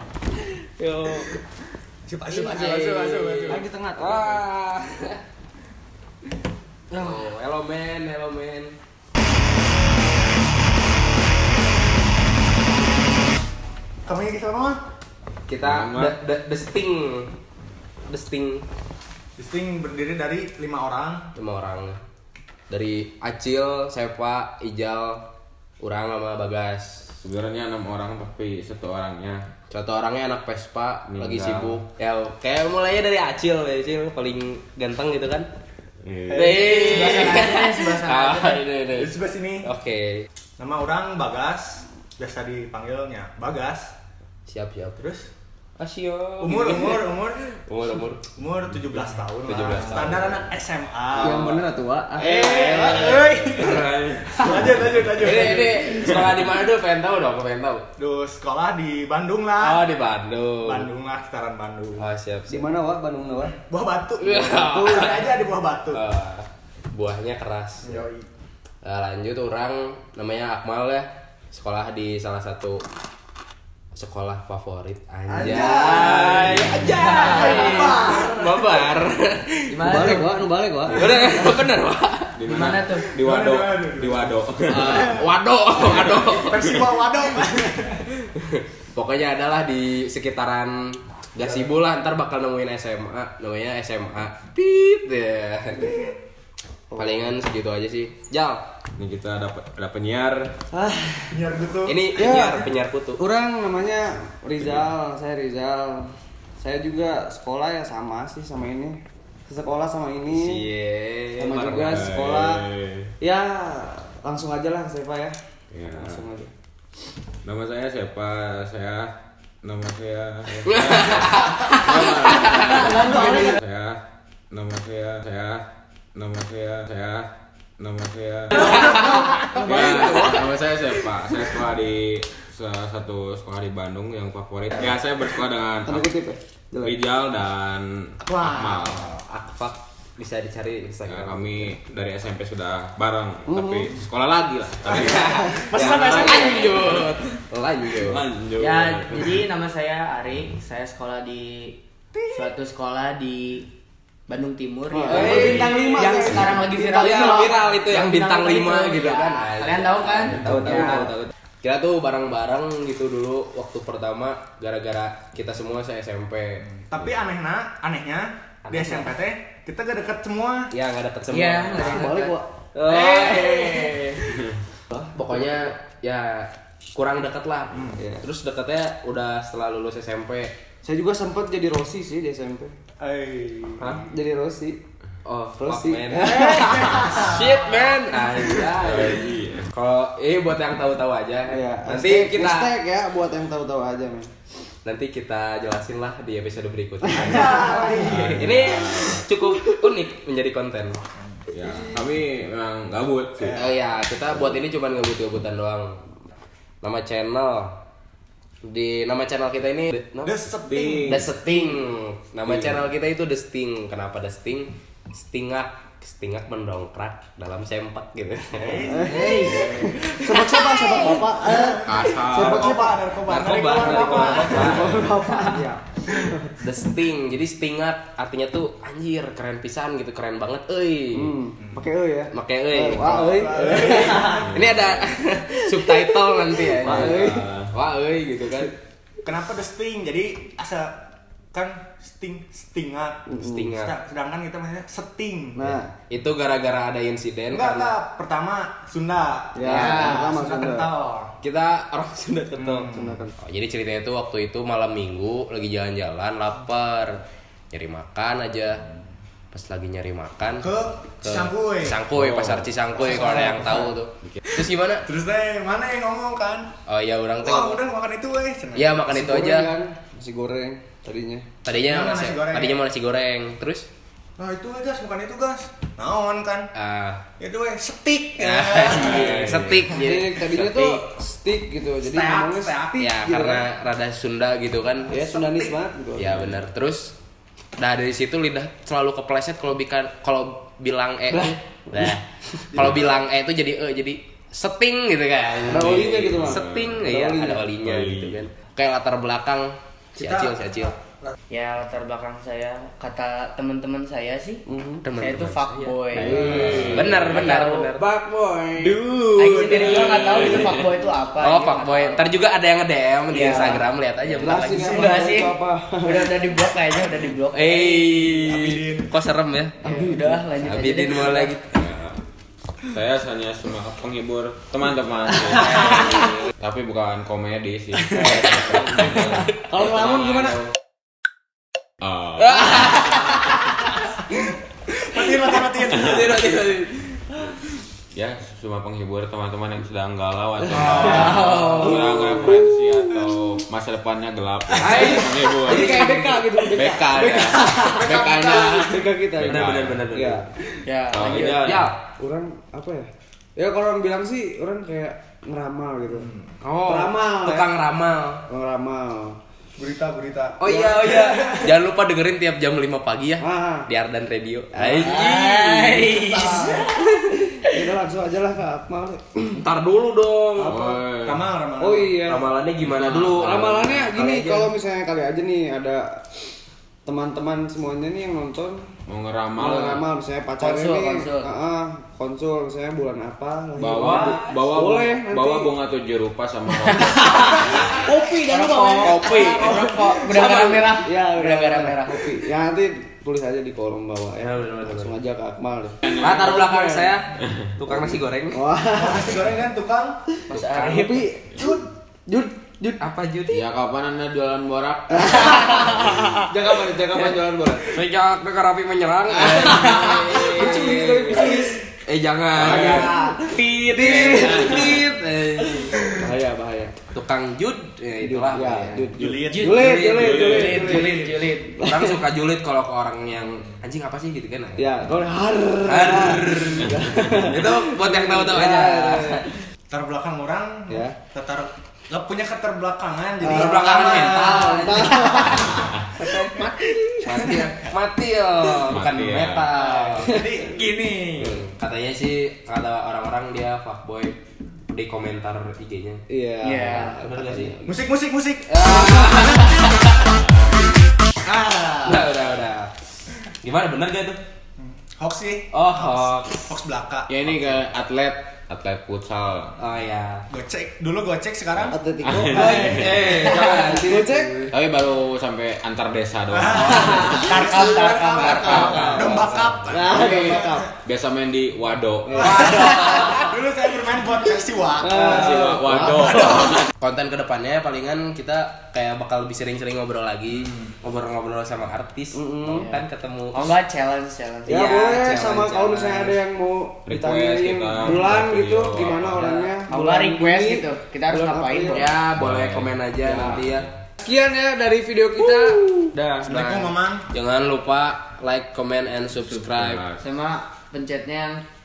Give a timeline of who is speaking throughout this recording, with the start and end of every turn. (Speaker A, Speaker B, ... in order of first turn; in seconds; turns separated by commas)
Speaker A: 0.4-1.3, Speaker B: 2.0-3.6, Speaker A: 2.5-5.2, Speaker C: 3.4-4.5, Speaker A: 6.9-8.7, Speaker B: 14.0-14.8, Speaker A: 15.5-17.3, Speaker D: 15.6-16.1, Speaker A: 18.1-18.7, Speaker B: 19.4-21.3, Speaker A: 21.3-22.0, Speaker A: 22.7-25.2, Speaker A: 25.8-27.2, Speaker D: 27.2-29.4, Speaker A: 29.7-35.5, Speaker D: 31.1-31.8, Speaker D: 36.0-37.0, Speaker B: 36.3-37.5, Speaker A: 36.3-40.2, Speaker E: 36.9-38.6, Speaker B: 38.9-39.7, Speaker B: 40.6-44.0, Speaker A: 44.5-45.0, Speaker B: 45.0-45.3, Speaker A: 45.8-48.2, Speaker B: 46.4-47.5, Speaker B: 48.4-51.5, Speaker A: 49.5-50.5, Speaker A: 51.2-51.6, Speaker C: 51.2-53.2, Speaker B: 52.2-55.9, Speaker A: 52.2-53.7, Speaker D: 53.5-55.0, Speaker A: 55.1-57.8, Speaker B: 58.0-59.9, Speaker A: 59.6-60.9, Speaker B: 60.6-62.0, Speaker A: 62.0-62.6, Speaker C: 62.5-63.5, Speaker B: 63.6-66.0, Speaker A: 64.2-65.3, Speaker C: 64.4-65.1, Speaker A: 65.9-68.0, Speaker B: 67.8-68.3, Speaker A: 68.8-72.8, Speaker A: 73.9-80.0, Speaker C: 75.3-76.3, Speaker B: 75.5-78.9, Speaker E: 75.8-78.2, Speaker E: 79.7-80.3, Speaker C: 79.8-81.6, Speaker A: 80.9-82.4, Speaker D: 82.3-85.2, Speaker E: 82.5-83.2, Speaker B: 83.1-85.0, Speaker A: 84.7-86.9, Speaker B: 86.0-88.0, Speaker A: 88.3-95.9, Speaker C: 96.9-97.3, Speaker A: 97.0-98.6, Speaker D: 99.0-100.6, Speaker C: 100.7-101.5, Speaker B: 101.3-102.4, Speaker A: 101.9-103.2, Speaker C: 102.1-102.7, Speaker C: 103.2-110.6, Speaker A: 110.3-112.1, Speaker C: 111.4-112.7, Speaker D: 111.6-113.1, Speaker C: 113.2-116.5, Speaker D: 115.7-116.2, Speaker D: 117.4-119.1, Speaker D: 119.6-124.0, Speaker A: 120.7-123.0, Speaker C: 122.9-123.6, Speaker D: 124.5-129.0, Speaker C: 128.5-130.4, Speaker D: 129.6-136.1, Speaker A: 129.8-130.1, Speaker C: 135.8-137.0, Speaker D: 136.8-139.1, Speaker B: 138.2-139.2, Speaker A: 139.2-141.8, Speaker D: 141.0-146.2, Speaker C: 143.5-143.9, Speaker B: 144.9-146.9, Speaker A: 145.0-148.2, Speaker E: 146.3-147.0, Speaker D: 148.0-149.4, Speaker E: 148.5-151.8, Speaker B: 152.2-152.5, Speaker E: 152.3-153.7, Speaker E: 154.3-161.1, Speaker C: 154.9-157.3, Speaker A: 155.0-166.7, Speaker B: 155.3-155.8, Speaker C: 160.3-161.3, Speaker B: 166.8-170.7, Speaker A: 168.7-169.1, Speaker A: 170.7-174.4, Speaker E: 171.3-172.3, Speaker C: 171.8-172.5, Speaker B: 173.2-173.5, Speaker C: 174.9-175.7, Speaker A: 175.1-180.5, Speaker C: 178.0-178.2, Speaker C: 180.8-182.8, Speaker B: 183.0-184.0, Speaker A: 183.8-184.0, Speaker C: 184.1-184.8, Speaker A: 185.2-192.7, Speaker C: 185.6-187.1, Speaker B: 186.1-187.6, Speaker D: 188.8-189.7, Speaker C: 191.5-194.3, Speaker A: 194.8-201.0, Speaker B: 197.1-198.5, Speaker D: 198.1-199.2, Speaker D: 201.5-203.6, Speaker A: 203.4-206.0, Speaker B: 203.4-203.7, Speaker A: 206.8-207.8, Speaker A: 208.6-210.3, Speaker B: 210.2-211.3, Speaker D: 210.6-211.3, Speaker A: 211.1-221.0, Speaker D: 212.5-212.7, Speaker B: 218.5-220.0, Speaker C: 218.9-223.0, Speaker B: 221.4-225.0, Speaker D: 221.8-222.6, Speaker A: 223.2-225.1, Speaker C: 224.4-226.5, Speaker E: 225.3-225.6, Speaker A: 226.6-231.3, Speaker C: 231.1-234.4, Speaker A: 232.3-238.7, Speaker B: 233.0-234.5, Speaker D: 234.3-235.1, Speaker C: 235.8-237.5, Speaker D: 236.8-237.7, Speaker B: 239.2-245.6, Speaker C: 243.3-243.7, Speaker A: 243.4-243.9, Speaker C: 245.5-245.9, Speaker A: 245.7-248.0, Speaker B: 247.5-251.3, Speaker C: 249.5-250.9, Speaker A: 249.6-250.2, Speaker E: 249.8-250.2, Speaker A: 251.4-252.9, Speaker B: 252.6-253.2, Speaker C: 252.9-253.3, Speaker A: 253.4-258.8, Speaker A: 259.5-260.7, Speaker B: 260.6-262.0, Speaker A: 261.2-265.1, Speaker D: 262.1-262.7, Speaker C: 262.9-264.0, Speaker B: 265.1-266.7, Speaker A: 266.9-267.8, Speaker B: 267.4-268.9, Speaker A: 268.8-269.7, Speaker C: 269.0-271.5, Speaker A: 271.6-273.9, Speaker B: 271.7-272.8, Speaker B: 274.4-276.7, Speaker A: 276.7-277.2, Speaker B: 277.4-279.8, Speaker A: 278.4-281.0, Speaker D: 279.1-279.7, Speaker C: 279.9-283.6, Speaker B: 282.0-283.1, Speaker A: 283.0-285.2, Speaker C: 285.1-286.6, Speaker A: 286.1-287.1, Speaker A: 287.8-300.9, Speaker C: 291.3-292.1, Speaker B: 292.8-293.1, Speaker C: 295.7-297.7, Speaker D: 295.7-297.1, Speaker D: 297.8-298.4, Speaker B: 300.2-301.3, Speaker E: 301.5-307.9, Speaker C: 304.7-305.0, Speaker A: 305.0-308.0, Speaker C: 306.1-307.2, Speaker D: 306.2-307.4, Speaker C: 307.9-309.0, Speaker B: 308.8-310.6, Speaker E: 309.3-312.3, Speaker D: 310.0-310.5, Speaker A: 311.4-315.1, Speaker E: 313.3-313.9, Speaker C: 314.3-316.4, Speaker B: 314.7-314.9, Speaker E: 314.8-318.3, Speaker A: 317.5-319.8, Speaker B: 318.3-319.1, Speaker E: 319.8-321.6, Speaker C: 319.8-320.5, Speaker A: 320.6-321.8, Speaker D: 321.7-322.2, Speaker D: 322.9-330.5, Speaker A: 325.6-326.3, Speaker A: 329.0-330.6, Speaker B: 329.6-330.6, Speaker D: 332.0-332.9, Speaker A: 332.4-333.9, Speaker A: 334.9-337.2, Speaker B: 335.0-336.6, Speaker D: 338.1-346.2, Speaker E: 340.7-342.5, Speaker A: 341.3-341.6, Speaker A: 344.8-347.3, Speaker C: 344.8-350.5, Speaker D: 346.7-350.0, Speaker B: 347.8-349.0, Speaker A: 349.4-350.5, Speaker E: 350.8-351.8, Speaker D: 351.1-351.9, Speaker A: 351.1-351.9, Speaker C: 352.1-356.3, Speaker B: 356.1-356.5, Speaker A: 356.6-358.4, Speaker C: 356.9-357.7, Speaker C: 358.5-359.4, Speaker B: 359.8-360.6, Speaker A: 360.6-367.2, Speaker C: 360.7-361.2, Speaker B: 361.1-361.7, Speaker C: 363.4-363.9, Speaker C: 364.7-365.4, Speaker E: 365.1-367.1, Speaker B: 366.1-366.8, Speaker C: 366.2-366.9, Speaker C: 367.7-369.6, Speaker A: 369.6-370.9, Speaker D: 370.6-371.4, Speaker B: 371.2-372.1, Speaker C: 371.8-372.5, Speaker A: 372.2-374.7, Speaker D: 372.8-373.9, Speaker C: 373.4-376.3, Speaker C: 377.1-378.9, Speaker D: 379.1-380.0, Speaker C: 379.6-385.7, Speaker E: 380.6-381.5, Speaker D: 383.8-387.9, Speaker A: 384.1-384.3, Speaker E: 386.8-392.3, Speaker C: 387.8-397.2, Speaker A: 389.0-390.8, Speaker A: 394.4-395.1, Speaker A: 396.1-398.6, Speaker C: 397.9-399.4, Speaker B: 398.9-400.2, Speaker E: 400.5-401.2, Speaker A: 400.5-401.2, Speaker C: 400.8-403.0, Speaker B: 401.6-401.9, Speaker A: 403.0-403.7, Speaker D: 403.5-405.6, Speaker C: 406.3-408.0, Speaker A: 407.9-411.5, Speaker C: 409.3-411.8, Speaker A: 412.0-416.1, Speaker D: 412.6-413.1, Speaker C: 412.6-413.4, Speaker E: 413.1-414.7, Speaker C: 414.0-415.0, Speaker C: 416.1-416.9, Speaker A: 417.1-419.1, Speaker C: 418.2-422.2, Speaker B: 419.1-420.2, Speaker E: 419.5-421.8, Speaker D: 420.1-420.6, Speaker A: 420.6-421.0, Speaker A: 421.8-424.9, Speaker C: 424.8-429.5, Speaker A: 425.8-429.5, Speaker B: 429.9-434.8, Speaker C: 430.9-431.2, Speaker A: 433.4-435.4, Speaker C: 433.4-437.3, Speaker E: 435.1-437.1, Speaker D: 435.5-436.1, Speaker A: 437.2-440.4, Speaker D: 438.9-439.8, Speaker B: 439.8-441.6, Speaker A: 441.4-446.2, Speaker C: 446.3-447.9, Speaker E: 446.6-447.2, Speaker A: 447.1-447.8, Speaker B: 447.8-449.9, Speaker A: 448.7-450.3, Speaker B: 451.4-452.3, Speaker A: 452.0-452.9, Speaker A: 453.6-454.4, Speaker B: 454.8-457.3, Speaker A: 455.7-456.7, Speaker D: 457.3-459.7, Speaker A: 459.8-460.4, Speaker B: 460.5-461.9, Speaker D: 461.8-463.4, Speaker C: 461.9-463.1, Speaker A: 462.5-464.7, Speaker C: 463.9-464.7, Speaker D: 464.7-467.5, Speaker B: 466.5-470.9, Speaker E: 466.7-469.3, Speaker A: 468.5-469.7, Speaker D: 468.7-469.2, Speaker C: 469.9-470.9, Speaker D: 471.0-472.9, Speaker A: 472.4-473.5, Speaker B: 472.4-476.8, Speaker C: 475.0-476.4, Speaker D: 475.1-476.9, Speaker A: 477.0-483.7, Speaker C: 482.3-482.9, Speaker E: 482.6-483.0, Speaker E: 483.5-484.8, Speaker A: 484.7-486.4, Speaker C: 484.7-492.1, Speaker D: 487.1-489.4, Speaker A: 489.1-489.7, Speaker E: 489.9-492.2, Speaker A: 491.9-493.9, Speaker D: 492.2-493.9, Speaker C: 493.2-493.6, Speaker C: 494.2-496.2, Speaker A: 495.4-500.1, Speaker B: 496.4-497.3, Speaker D: 499.6-500.2, Speaker E: 500.2-501.6